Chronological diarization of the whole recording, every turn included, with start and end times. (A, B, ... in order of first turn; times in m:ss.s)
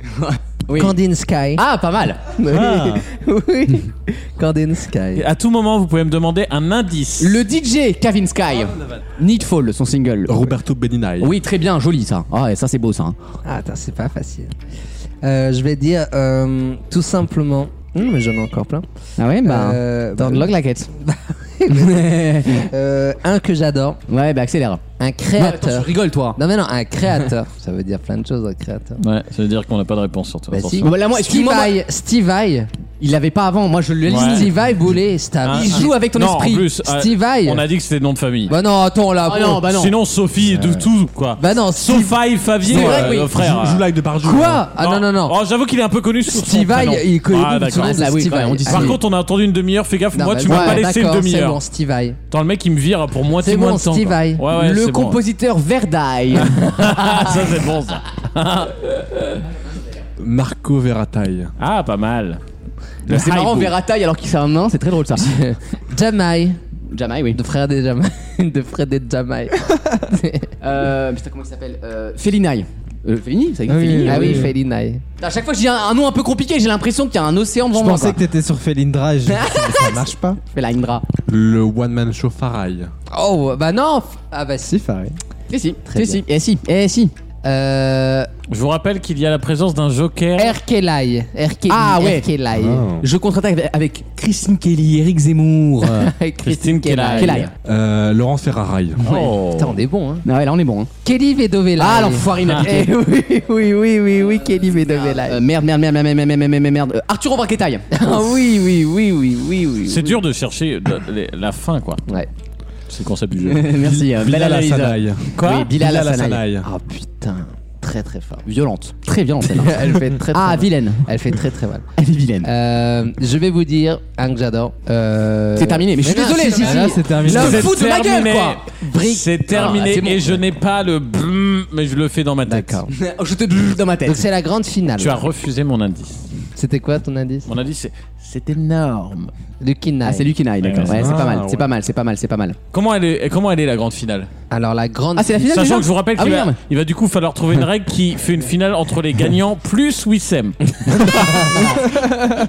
0:00.1-0:00.9 A
0:00.7-0:01.6 B
0:01.6-0:02.2 A
0:02.3-0:05.2 B
0:02.5-0:03.0 C
0:05.2-0:07.4 C
0:07.2-0:10.5 A
0:10.3-0:11.4 D
0:11.2-0:13.2 A
0:13.4-0:14.5 B
0:15.2-0:18.8 B
0:19.2-0:20.9 A
0:19.4-0:24.0 B
0:21.7-0:22.7 A
0:24.1-0:24.8 A
0:25.0-0:29.0 B
0:25.4-0:26.4 A
0:29.0-0:30.9 C
0:30.5-0:32.7 B
0:30.8-0:31.8 A
0:33.0-0:34.5 A
0:34.1-0:34.5 C
0:34.2-0:35.9 B
0:35.4-0:38.5 C
0:35.5-0:36.7 A
0:36.8-0:37.6 B
0:38.5-0:39.7 B
0:39.2-0:39.9 A
0:39.7-0:43.8 C
0:40.5-0:40.8 B
0:41.4-0:43.2 B
0:42.7-0:43.3 A
0:42.8-0:44.7 D
0:44.2-0:45.4 B
0:44.8-0:51.6 C
0:46.3-0:49.0 B
0:47.8-0:49.0 A
0:50.1-0:52.2 B
0:50.5-0:50.8 A
0:52.3-0:55.2 C
0:53.4-0:54.4 B
0:54.5-0:57.2 A
0:56.4-0:59.0 C
1:00.2-1:01.5 D
1:01.6-1:02.4 C
1:03.0-1:03.7 C
1:03.1-1:05.4 A
1:05.2-1:06.6 B
1:06.9-1:07.4 A
1:07.3-1:10.5 B
1:10.6-1:14.5 A
1:13.7-1:14.5 E
1:14.0-1:15.0 B
1:15.2-1:18.2 A
1:17.7-1:20.4 E
1:19.3-1:21.0 A
1:21.3-1:22.9 D
1:23.1-1:24.8 B
1:24.7-1:25.2 E
1:25.5-1:27.1 A
1:25.9-1:26.2 B
1:27.4-1:28.3 B
1:28.5-1:30.6 C
1:30.4-1:32.9 B
1:31.7-1:32.3 A
1:32.5-1:33.0 D
1:33.0-1:36.1 A
1:35.8-1:37.5 B
1:36.4-1:37.5 C
1:37.1-1:37.5 A
1:37.6-1:39.0 D
1:39.0-1:39.8 C
1:39.1-1:39.3 A
1:39.4-1:40.2 B
1:40.2-1:40.9 A
1:41.0-1:45.4 B
1:41.8-1:42.9 A
1:44.9-1:47.9 A
1:47.9-1:50.2 B
1:49.8-1:52.0 C
1:52.9-1:53.7 C
1:53.4-1:56.4 A
1:53.8-1:56.7 D
1:55.4-1:55.7 C
1:56.6-1:58.5 B
1:58.5-2:01.0 A
1:59.5-2:01.8 B
2:02.0-2:02.5 A
2:02.4-2:07.8 B
2:05.6-2:08.6 A
2:06.4-2:07.7 E
2:07.2-2:12.8 C
2:08.8-2:09.9 B
2:09.5-2:10.4 A
2:12.4-2:12.9 B
2:12.9-2:14.2 A
2:14.0-2:15.2 B
2:15.0-2:16.2 C
2:16.6-2:17.5 B
2:17.4-2:19.3 C
2:19.6-2:20.3 B
2:20.0-2:22.6 A
2:20.6-2:21.2 C
2:20.9-2:21.7 D
2:22.7-2:24.3 C
2:24.5-2:25.5 B
2:25.2-2:26.6 A
2:25.5-2:31.5 C
2:30.9-2:32.1 B